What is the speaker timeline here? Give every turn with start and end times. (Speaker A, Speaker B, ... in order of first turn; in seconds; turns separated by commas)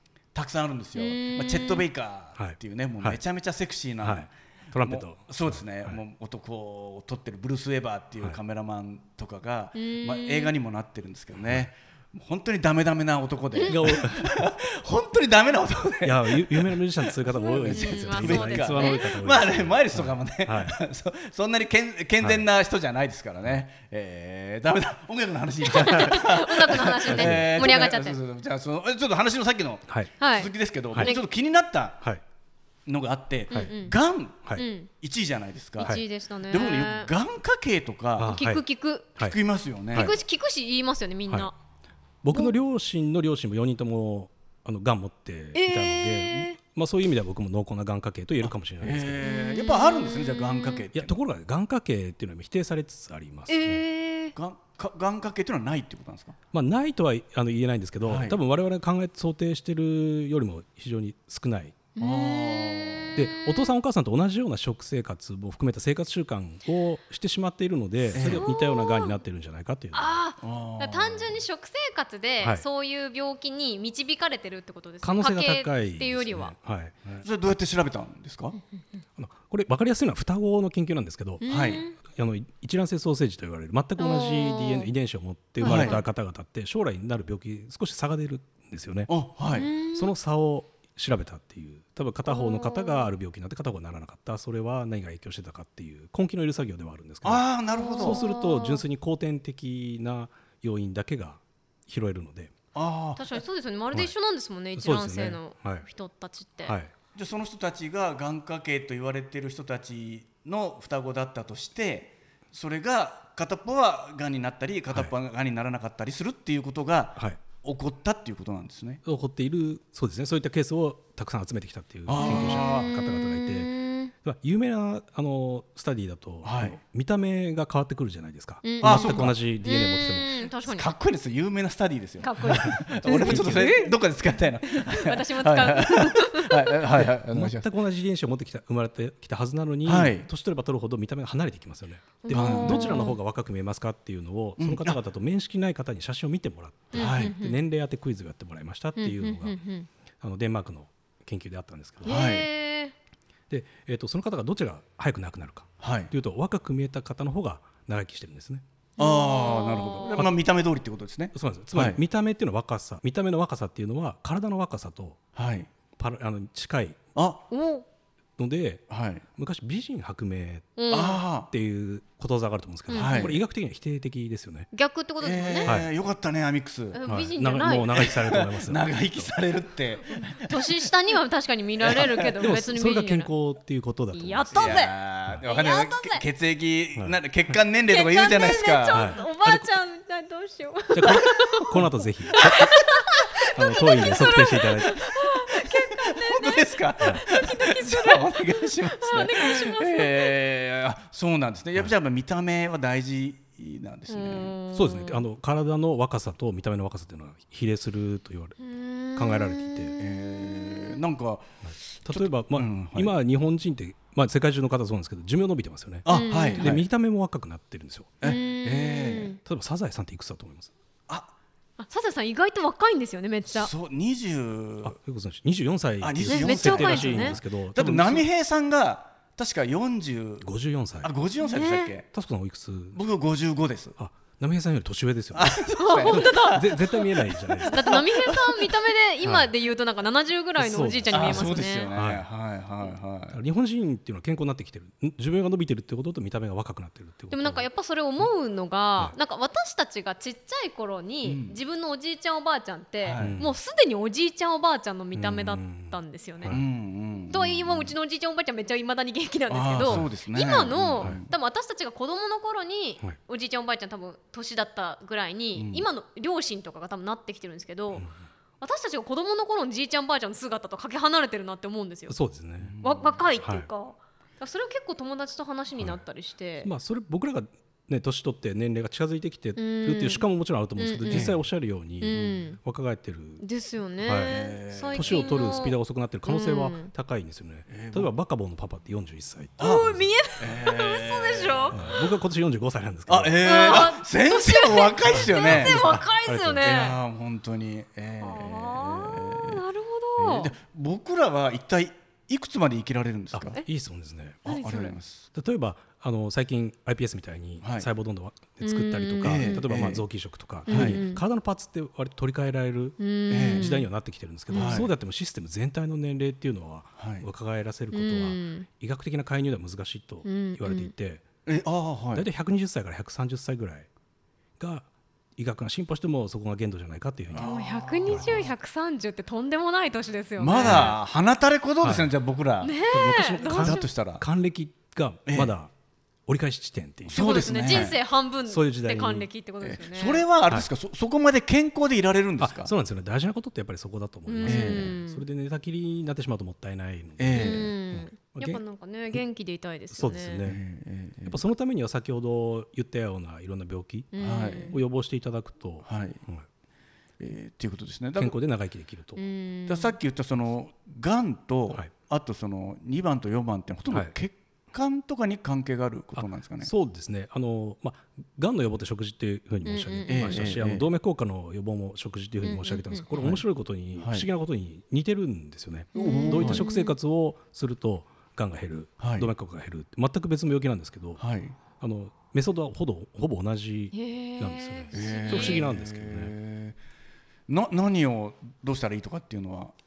Speaker A: 0.3-32.0, Speaker B: 0.9-1.8, Speaker C: 2.4-3.2, Speaker C: 4.0-6.0, Speaker B: 9.7-10.5, Speaker C: 13.7-14.5, Speaker C: 16.0-20.8, Speaker B: 17.3-19.1, Speaker C: 22.2-22.5, Speaker B: 25.6-28.2, Speaker C: 27.1-27.6, Speaker B: 30.2-31.2, Speaker A: 32.9-34.4, Speaker B: 33.5-34.0, Speaker B: 34.5-34.9, Speaker A: 35.0-38.4, Speaker B: 35.8-37.1, Speaker C: 38.2-38.6, Speaker B: 38.2-39.1, Speaker A: 39.2-40.1, Speaker B: 39.9-41.5, Speaker C: 42.2-49.2, Speaker B: 45.5-46.6, Speaker A: 48.4-51.2, Speaker B: 49.2-50.8, Speaker C: 50.9-53.8, Speaker B: 53.5-54.4, Speaker A: 54.3-56.4, Speaker C: 56.5-61.8, Speaker A: 58.0-58.4, Speaker B: 62.0-63.7, Speaker A: 62.0-63.2, Speaker C: 63.1-70.2, Speaker A: 68.1-68.5, Speaker B: 68.1-69.2, Speaker B: 69.9-76.5, Speaker A: 70.4-71.4, Speaker C: 75.0-77.2, Speaker A: 77.2-78.6, Speaker C: 79.2-89.1, Speaker B: 81.4-82.0, Speaker A: 81.5-81.8, Speaker B: 84.0-84.9, Speaker B: 85.6-86.0, Speaker A: 85.6-86.0, Speaker A: 89.1-89.7, Speaker B: 89.5-90.1, Speaker C: 89.9-97.4, Speaker B: 92.3-93.1, Speaker A: 97.2-98.2, Speaker B: 97.7-98.8, Speaker C: 98.0-102.5, Speaker A: 102.7-103.3, Speaker B: 103.2-106.8, Speaker C: 104.8-105.8, Speaker C: 106.6-106.9, Speaker A: 107.1-119.0, Speaker C: 119.0-123.7, Speaker A: 122.1-122.9, Speaker B: 122.2-124.1, Speaker C: 124.2-130.3, Speaker A: 126.4-126.8, Speaker B: 128.6-130.9, Speaker A: 128.8-129.3, Speaker A: 130.6-137.7, Speaker B: 132.2-133.9, Speaker C: 132.4-133.8, Speaker B: 134.7-136.8, Speaker C: 136.9-149.6, Speaker A: 139.8-140.3, Speaker B: 142.2-143.2, Speaker A: 142.3-143.1, Speaker A: 144.6-145.0, Speaker B: 146.9-147.6, Speaker A: 146.9-147.3, Speaker B: 149.0-149.9, Speaker C: 150.2-152.2, Speaker A: 152.0-152.5, Speaker B: 152.0-152.9, Speaker C: 153.5-158.6, Speaker A: 155.8-156.1, Speaker B: 159.0-160.2, Speaker A: 159.0-162.0, Speaker C: 161.3-165.2, Speaker A: 165.3-165.7, Speaker C: 166.0-167.0, Speaker A: 167.1-167.4, Speaker B: 167.5-167.8, Speaker C: 168.4-170.8, Speaker A: 168.9-169.2, Speaker B: 170.8-171.2, Speaker A: 170.9-171.5, Speaker C: 171.4-174.7, Speaker B: 172.9-173.4, Speaker A: 172.9-173.4, Speaker B: 174.7-175.7, Speaker A: 175.2-177.1, Speaker C: 175.6-175.9, Speaker B: 176.9-178.1, Speaker C: 177.0-179.3, Speaker A: 177.9-180.8, Speaker B: 180.2-183.3, Speaker A: 181.8-182.3, Speaker C: 182.4-185.4, Speaker B: 184.1-184.9, Speaker A: 184.5-189.1, Speaker B: 185.4-186.2, Speaker B: 187.9-200.3, Speaker C: 188.9-189.7, Speaker C: 190.9-195.0, Speaker A: 191.2-191.6, Speaker A: 192.4-192.7, Speaker A: 195.1-204.6, Speaker B: 204.1-205.2, Speaker C: 204.7-208.6, Speaker B: 208.6-211.0, Speaker C: 209.1-209.9, Speaker A: 210.0-213.2, Speaker C: 211.6-218.1, Speaker A: 216.0-216.9, Speaker B: 216.1-216.7, Speaker A: 218.2-219.3, Speaker B: 218.2-219.4, Speaker C: 219.4-220.7, Speaker B: 221.8-223.7, Speaker A: 223.5-224.9, Speaker C: 224.8-228.2, Speaker A: 226.0-230.5, Speaker B: 226.3-227.4, Speaker C: 230.4-231.1, Speaker A: 231.0-232.1, Speaker B: 231.4-231.9, Speaker C: 232.1-233.0, Speaker A: 232.9-234.0, Speaker C: 234.0-238.1, Speaker A: 235.3-238.7, Speaker B: 235.8-237.1, Speaker B: 237.7-241.9, Speaker C: 239.2-239.5, Speaker C: 240.6-242.3, Speaker A: 241.1-243.4, Speaker C: 243.3-247.7, Speaker B: 247.3-256.6, Speaker A: 251.2-251.6, Speaker A: 253.0-253.4, Speaker C: 253.2-253.5, Speaker C: 255.1-256.6, Speaker A: 256.5-257.9, Speaker B: 257.3-268.1, Speaker A: 259.5-261.3, Speaker A: 265.5-265.9, Speaker B: 268.6-272.2, Speaker C: 272.1-272.7, Speaker A: 272.6-273.2, Speaker B: 272.8-276.7, Speaker C: 273.4-273.7, Speaker C: 275.8-276.0, Speaker C: 276.6-283.4, Speaker B: 279.6-280.2, Speaker B: 280.8-281.4, Speaker A: 281.1-281.4, Speaker B: 282.0-282.6, Speaker A: 282.1-282.4, Speaker B: 283.4-286.9, Speaker C: 284.0-284.4, Speaker A: 284.2-285.3, Speaker C: 284.9-290.0, Speaker A: 287.7-288.1, Speaker A: 289.6-292.1, Speaker B: 289.6-291.8, Speaker C: 291.7-293.4, Speaker A: 293.1-296.0, Speaker B: 293.4-297.0, Speaker C: 295.1-296.7, Speaker A: 296.6-299.6, Speaker B: 298.2-300.5, Speaker A: 300.2-303.6, Speaker C: 303.3-304.4, Speaker A: 304.4-305.3, Speaker B: 304.4-304.9, Speaker C: 305.3-321.2, Speaker A: 307.6-307.9, Speaker B: 308.6-309.6, Speaker A: 309.2-310.0, Speaker A: 310.6-311.0, Speaker B: 310.7-311.2, Speaker B: 313.0-313.9, Speaker A: 313.3-313.8, Speaker B: 314.5-314.8, Speaker A: 314.5-314.9, Speaker A: 317.0-317.3, Speaker B: 317.9-318.6, Speaker B: 320.2-320.9, Speaker A: 321.4-322.2, Speaker C: 322.1-323.9, Speaker C: 324.6-327.5, Speaker A: 327.3-328.5, Speaker B: 327.4-331.0, Speaker C: 328.1-328.5, Speaker A: 330.4-332.8, Speaker C: 330.6-331.0, Speaker C: 331.8-332.1, Speaker B: 332.6-333.9, Speaker C: 332.9-335.7, Speaker A: 333.5-334.2, Speaker A: 335.3-335.5, Speaker C: 336.3-339.3, Speaker A: 337.1-338.0, Speaker B: 337.2-340.2, Speaker A: 339.6-342.7, Speaker C: 342.4-348.6, Speaker B: 344.2-345.2, Speaker A: 344.4-344.9, Speaker A: 347.2-347.7, Speaker B: 347.3-350.4, Speaker C: 349.9-350.6, Speaker A: 350.4-351.4, Speaker C: 351.2-356.4, Speaker B: 354.1-354.7, Speaker A: 354.2-354.8, Speaker A: 355.8-356.2, Speaker A: 357.2-358.4, Speaker C: 358.1-359.2, Speaker B: 359.1-359.9, Speaker A: 359.7-366.7, Speaker C: 366.1-381.2, Speaker B: 369.6-370.4, Speaker A: 370.1-370.9, Speaker B: 372.4-373.1, Speaker A: 373.1-373.4, Speaker A: 373.9-374.3, Speaker B: 375.9-376.9, Speaker A: 375.9-376.6, Speaker A: 379.0-379.3, Speaker A: 381.2-381.6, Speaker C: 381.8-386.3, Speaker B: 383.9-385.6, Speaker A: 384.9-386.8, Speaker A: 387.5-389.7